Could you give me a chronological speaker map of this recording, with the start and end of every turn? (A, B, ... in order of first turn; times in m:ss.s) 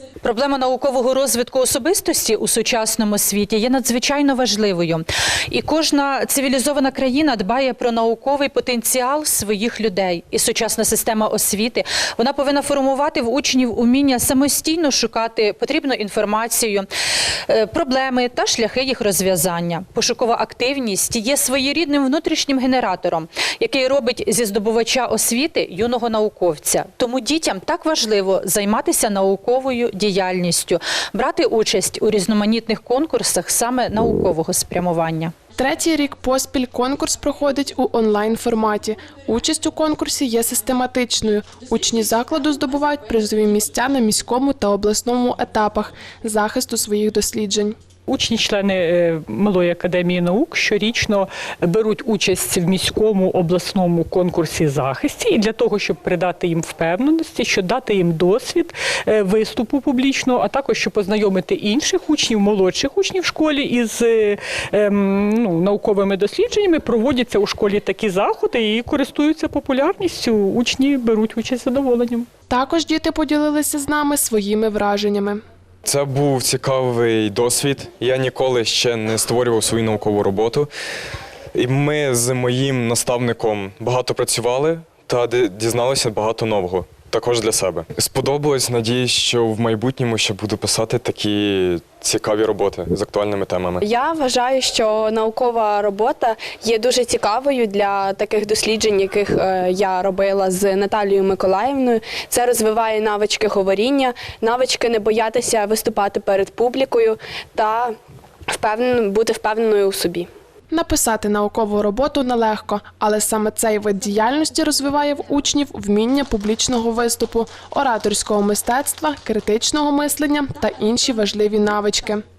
0:00.2-0:16.9 A
0:17.5-0:35.3 A
0:35.6-0:47.8 B
0:48.1-1:12.3 C
1:12.5-1:15.4 B
1:15.8-1:20.7 D
1:21.6-1:33.8 D
1:33.9-1:35.8 E
1:36.3-1:36.6 E
1:37.2-1:38.1 E
1:38.9-1:47.9 E
1:48.8-1:50.3 E
1:50.7-2:02.2 B